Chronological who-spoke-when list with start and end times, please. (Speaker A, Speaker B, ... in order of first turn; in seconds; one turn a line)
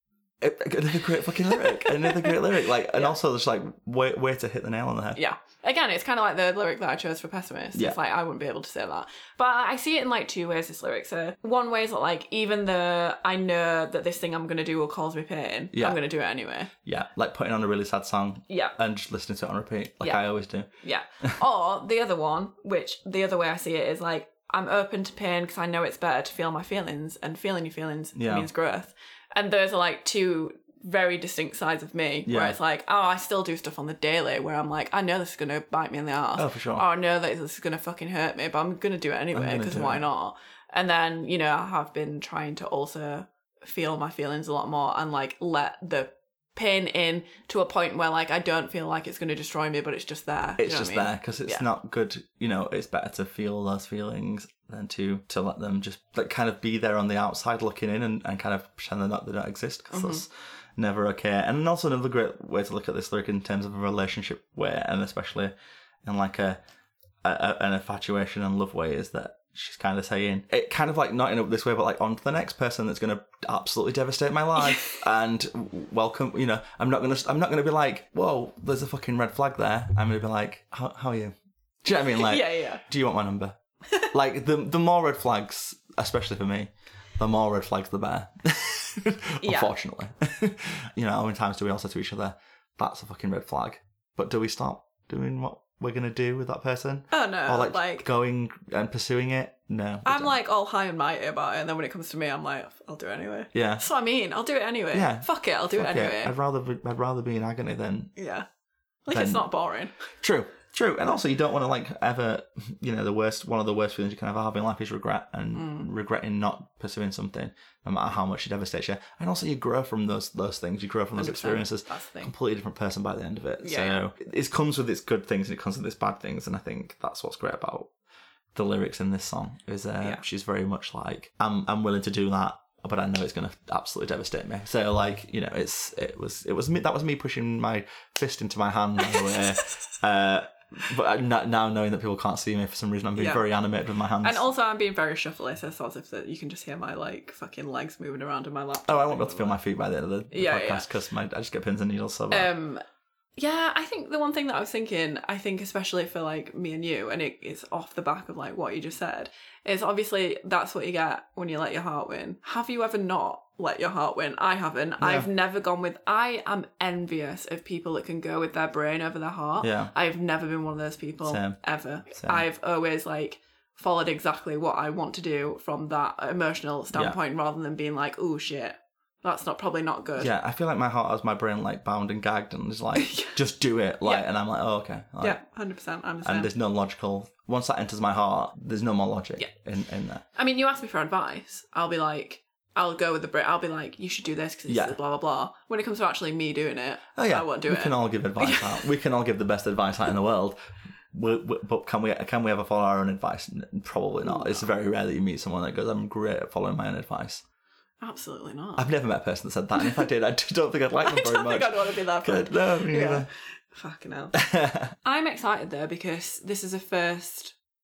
Speaker A: 0.4-5.2
Speaker B: 1.5-2.4
Speaker B: 5.1-16.7
Speaker A: 15.7-16.0
Speaker A: 16.8-20.7
Speaker B: 18.5-18.7
Speaker B: 20.8-51.6
Speaker A: 28.1-28.5
Speaker A: 32.2-32.5
Speaker A: 36.4-36.8
Speaker A: 39.3-40.0
Speaker A: 50.6-65.5
Speaker B: 59.9-60.2
Speaker A: 66.0-66.6
Speaker A: 67.2-100.3
Speaker B: 74.6-75.0
Speaker B: 82.0-82.8
Speaker B: 89.4-89.7
Speaker B: 97.1-98.0
Speaker B: 100.0-106.3
Speaker A: 103.5-103.9
Speaker A: 104.9-108.1
Speaker B: 108.2-108.5
Speaker B: 109.1-109.9
Speaker A: 109.1-109.5
Speaker A: 110.2-127.9
Speaker B: 115.5-115.9
Speaker B: 121.1-122.3
Speaker B: 123.6-124.0
Speaker A: 128.5-144.4
Speaker B: 143.2-143.4
Speaker B: 144.2-149.6
Speaker A: 148.9-152.5
Speaker B: 150.3-150.8
Speaker B: 152.3-152.8
Speaker B: 153.4-180.3
Speaker A: 165.0-165.3
Speaker A: 169.6-169.9
Speaker A: 171.2-171.6
Speaker A: 172.1-172.4
Speaker A: 180.2-185.4
Speaker B: 182.9-183.3
Speaker B: 185.2-186.5
Speaker A: 186.2-190.2
Speaker B: 190.3-198.9
Speaker A: 194.7-195.0
Speaker A: 197.2-200.6
Speaker A: 201.1-207.4
Speaker B: 204.2-204.7
Speaker B: 208.0-208.8
Speaker A: 208.8-213.3
Speaker B: 211.0-214.4
Speaker A: 214.3-214.9
Speaker B: 215.0-217.6